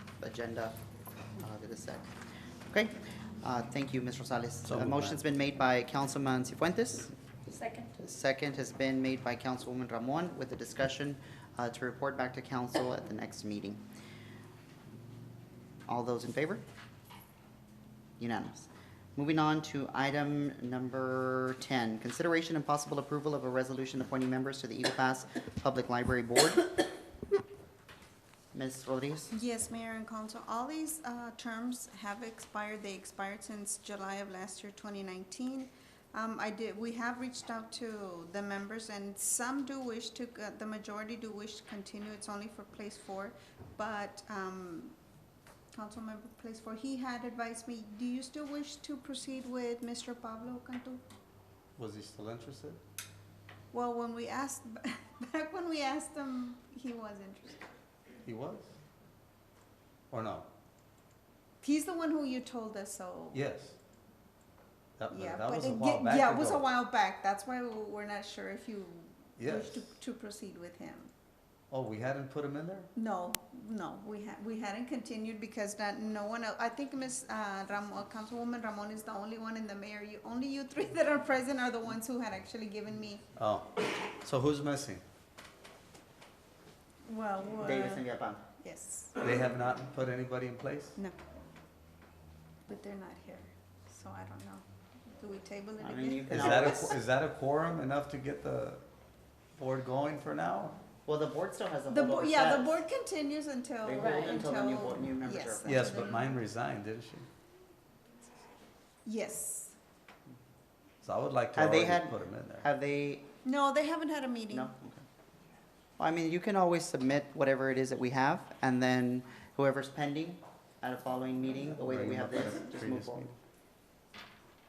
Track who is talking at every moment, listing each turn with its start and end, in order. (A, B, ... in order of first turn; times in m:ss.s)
0:00.2-0:00.8 A
0:01.4-0:02.1 A
0:02.7-0:07.1 A
0:04.7-0:05.2 B
0:08.0-0:13.8 A
0:15.9-0:16.6 A
0:18.2-0:26.8 A
0:28.5-0:29.3 A
0:29.3-0:45.0 C
0:45.7-0:51.0 C
0:51.8-0:52.8 B
0:53.7-0:57.6 C
0:58.3-0:58.7 B
1:00.1-1:00.5 B
1:01.6-1:03.4 C
1:03.3-1:03.8 B
1:05.0-1:06.6 B
1:05.1-1:11.1 C
1:09.4-1:09.9 B
1:11.7-1:12.9 B
1:13.0-1:23.2 C
1:23.4-1:25.0 B
1:27.1-1:29.2 C
1:27.6-1:28.4 A
1:29.2-1:31.0 B
1:32.7-1:36.9 C
1:35.8-1:37.0 A
1:36.3-1:38.8 B
1:39.6-1:40.8 B
1:41.1-1:42.8 A
1:41.9-1:46.3 C
1:43.8-1:45.9 A
1:45.7-1:47.3 B
1:49.0-1:49.8 C
1:51.0-1:52.7 B
1:51.6-1:53.3 A
1:53.4-1:54.7 C
1:54.5-1:55.0 A
1:56.0-2:03.3 A
2:01.8-2:03.3 B